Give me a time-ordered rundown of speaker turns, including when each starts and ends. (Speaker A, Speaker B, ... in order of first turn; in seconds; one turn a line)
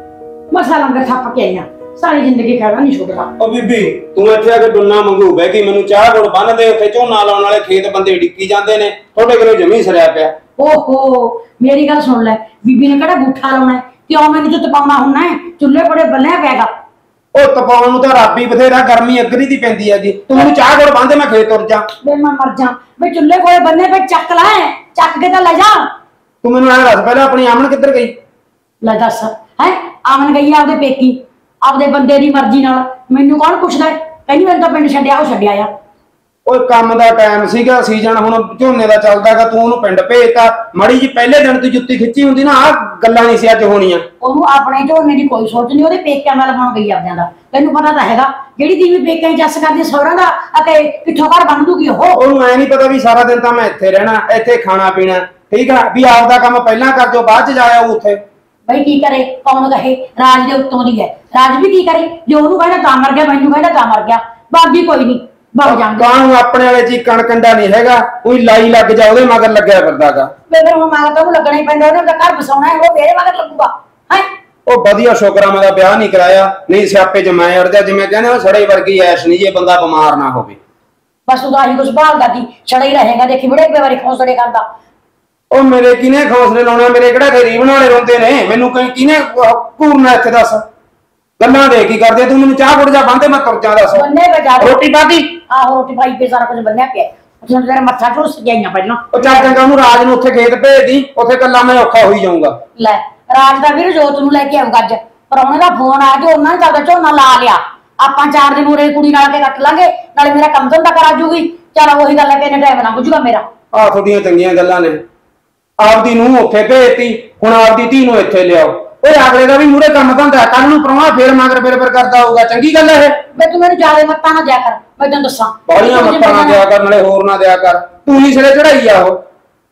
Speaker A: 0.5-3.3
Speaker B: 3.4-10.4
Speaker A: 10.6-16.7
Speaker B: 17.3-21.9
Speaker A: 22.0-25.9
Speaker B: 26.4-28.1
Speaker A: 28.8-35.7
Speaker B: 36.5-44.0
Speaker A: 44.2-52.2
Speaker B: 52.1-58.2
Speaker A: 58.7-66.1
Speaker B: 65.6-70.3
Speaker A: 70.5-74.3
Speaker B: 74.7-80.6
Speaker A: 81.3-84.7
Speaker B: 85.5-90.6
Speaker B: 91.4-95.3
Speaker A: 93.9-94.8
Speaker A: 95.4-99.5
Speaker B: 99.1-102.6
Speaker A: 102.8-113.5
Speaker B: 113.7-115.0
Speaker B: 115.8-123.2
Speaker A: 123.3-126.6
Speaker B: 125.7-129.2